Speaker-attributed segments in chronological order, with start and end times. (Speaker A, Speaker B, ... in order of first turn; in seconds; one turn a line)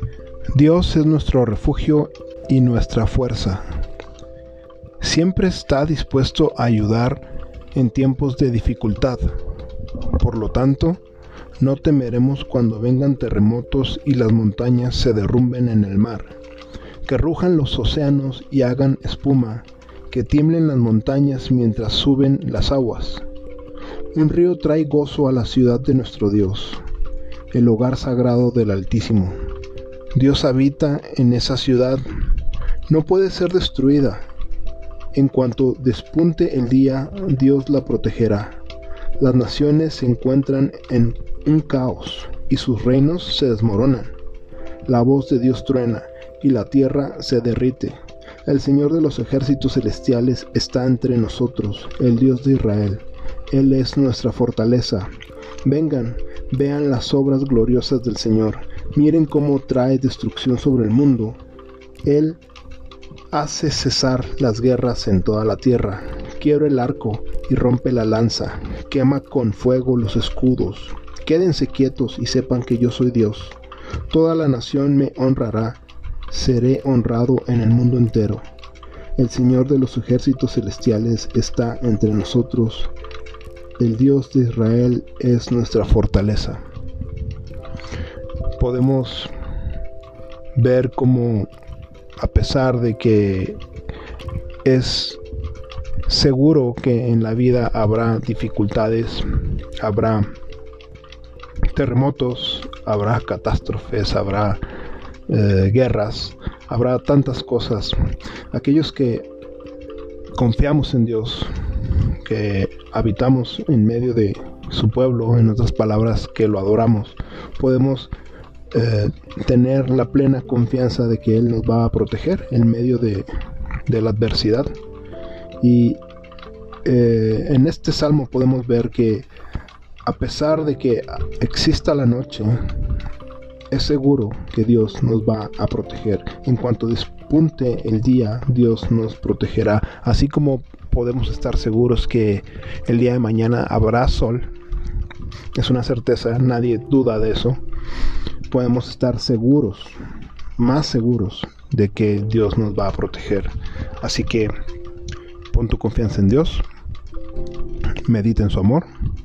Speaker A: 0.5-3.8
Speaker A: 5.0-9.4
Speaker A: 10.1-11.0
Speaker A: 11.6-16.4
Speaker A: 17.0-23.2
Speaker A: 24.1-26.8
Speaker A: 27.5-29.4
Speaker A: 30.1-32.0
Speaker A: 32.9-34.2
Speaker A: 35.1-38.6
Speaker A: 39.2-44.1
Speaker A: 44.8-55.1
Speaker A: 55.6-61.4
Speaker A: 62.0-62.4
Speaker A: 63.3-73.6
Speaker A: 74.1-78.4
Speaker A: 79.2-82.9
Speaker A: 83.8-86.6
Speaker A: 88.5-89.3
Speaker A: 90.5-91.5
Speaker A: 92.2-93.6
Speaker A: 94.6-95.2
Speaker A: 96.0-100.3
Speaker A: 101.7-104.6
Speaker A: 105.3-108.0
Speaker A: 108.5-109.3
Speaker A: 110.3-118.1
Speaker A: 118.7-123.3
Speaker A: 123.8-124.7
Speaker A: 125.6-126.0
Speaker A: 126.8-129.3
Speaker A: 130.0-132.9
Speaker A: 133.7-144.5
Speaker A: 145.5-147.6
Speaker A: 148.5-150.0
Speaker A: 150.6-154.5
Speaker A: 155.5-156.7
Speaker A: 158.0-158.9